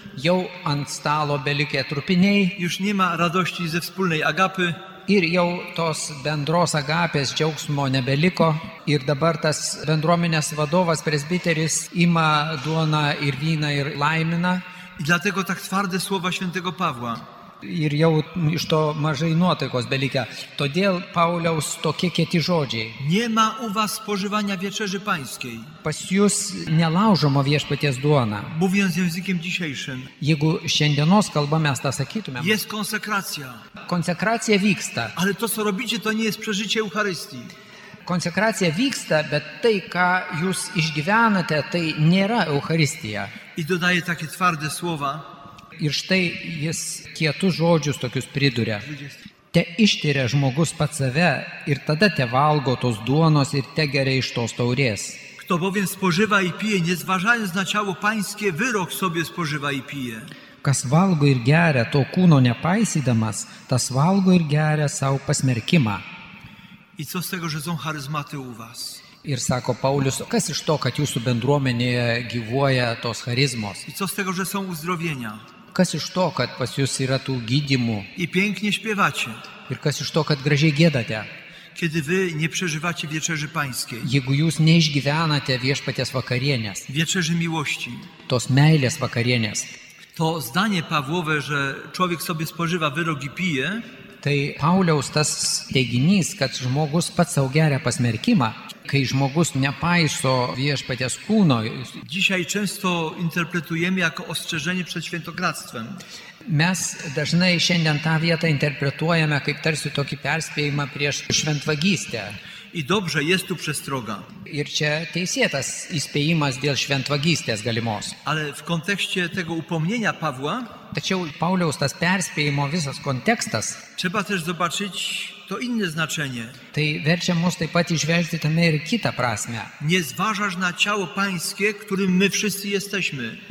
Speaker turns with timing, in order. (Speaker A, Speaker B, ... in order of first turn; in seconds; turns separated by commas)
Speaker A: 0.1-2.5, Speaker B: 2.5-4.8, Speaker A: 5.1-14.6, Speaker B: 15.0-17.3, Speaker A: 17.6-23.0, Speaker B: 23.0-25.7, Speaker A: 25.8-28.5, Speaker B: 28.5-30.1, Speaker A: 30.2-32.6, Speaker B: 32.4-33.6, Speaker A: 33.9-35.1, Speaker B: 35.1-37.5, Speaker A: 38.0-43.3, Speaker B: 43.5-45.2, Speaker A: 45.8-48.9, Speaker B: 48.8-49.2, Speaker A: 49.5-55.2, Speaker B: 55.4-60.3, Speaker A: 60.6-66.0, Speaker B: 67.0-69.0, Speaker A: 69.2-73.8, Speaker B: 73.8-75.4, Speaker A: 75.7-78.1, Speaker B: 78.2-79.4, Speaker A: 79.7-81.3, Speaker B: 81.7-84.1, Speaker A: 84.0-86.8, Speaker B: 86.9-88.1, Speaker A: 88.3-89.7, Speaker B: 90.2-93.8, Speaker A: 94.2-102.0, Speaker B: 102.0-106.0, Speaker A: 106.4-112.4, Speaker B: 112.7-114.3, Speaker A: 114.5-118.2, Speaker B: 118.2-120.7, Speaker A: 120.9-123.8, Speaker B: 124.0-126.6, Speaker A: 126.7-129.7, Speaker B: 129.8-133.4